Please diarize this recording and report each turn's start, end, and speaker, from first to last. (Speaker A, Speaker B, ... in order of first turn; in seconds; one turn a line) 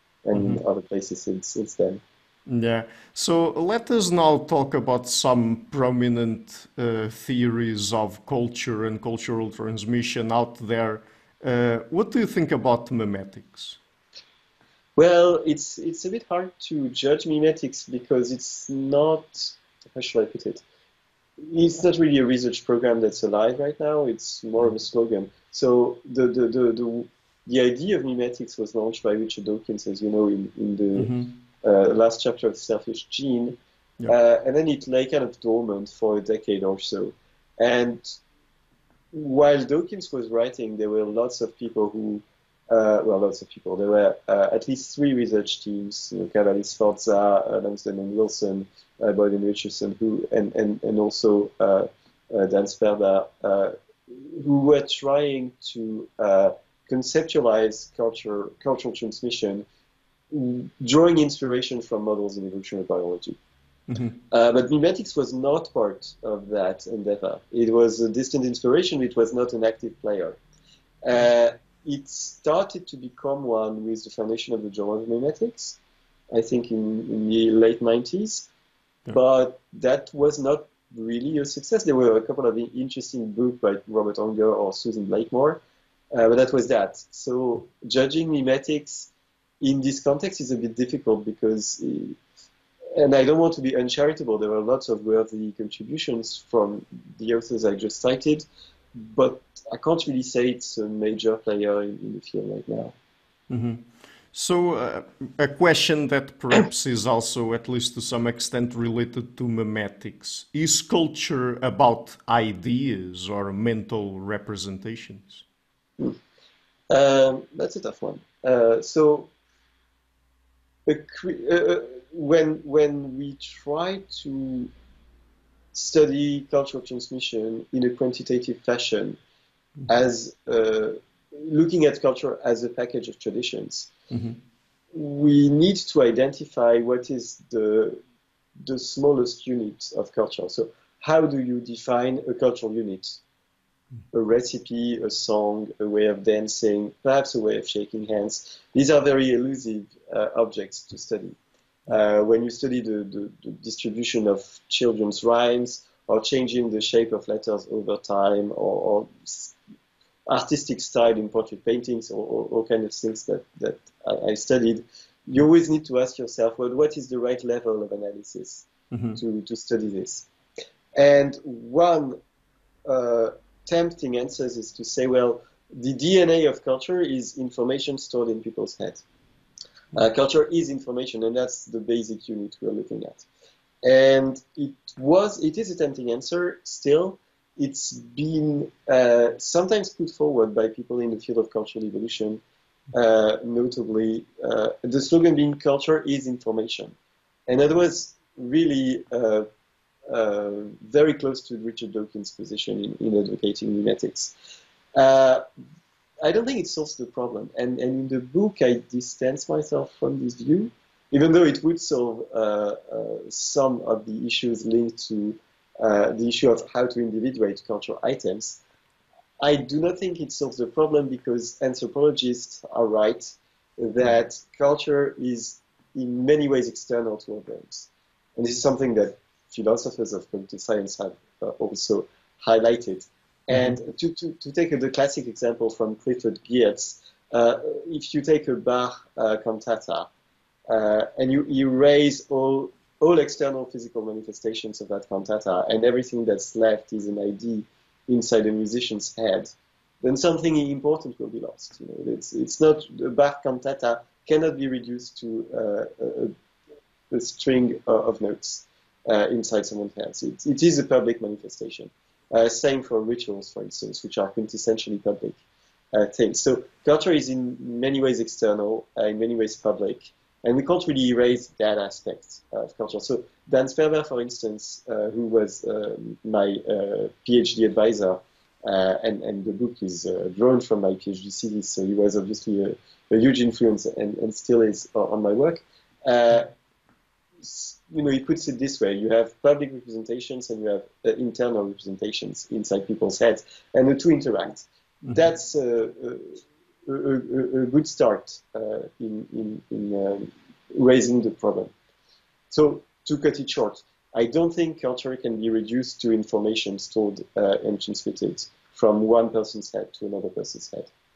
Speaker A: 0.2-2.0
Speaker B: 0.3-0.6
Speaker B: 2.5-13.8
Speaker A: 14.9-20.6
Speaker A: 21.4-38.2
Speaker B: 31.0-31.3
Speaker A: 39.1-59.6
Speaker A: 60.3-63.4
Speaker B: 63.9-64.2
Speaker A: 64.3-70.4
Speaker A: 71.0-75.8
Speaker A: 76.3-78.5
Speaker A: 79.1-85.6
Speaker A: 86.1-92.2
Speaker A: 92.9-102.9
Speaker B: 103.5-115.4
Speaker A: 116.9-119.3
Speaker A: 120.8-124.7
Speaker A: 125.7-129.2
Speaker A: 129.9-133.9
Speaker B: 134.1-134.4
Speaker A: 134.9-138.0
Speaker A: 138.6-143.2
Speaker A: 144.1-159.6
Speaker A: 160.3-168.7
Speaker B: 168.9-169.2
Speaker A: 169.2-170.3
Speaker A: 170.9-172.2
Speaker A: 172.8-179.0
Speaker A: 179.9-183.2
Speaker A: 183.8-196.9
Speaker A: 197.5-199.4
Speaker A: 200.1-204.3
Speaker A: 204.9-205.4
Speaker A: 206.2-218.6
Speaker A: 219.4-240.1
Speaker B: 233.5-233.8
Speaker A: 240.7-256.3
Speaker A: 257.1-265.4
Speaker A: 265.9-286.5
Speaker A: 287.4-301.7
Speaker A: 302.5-310.9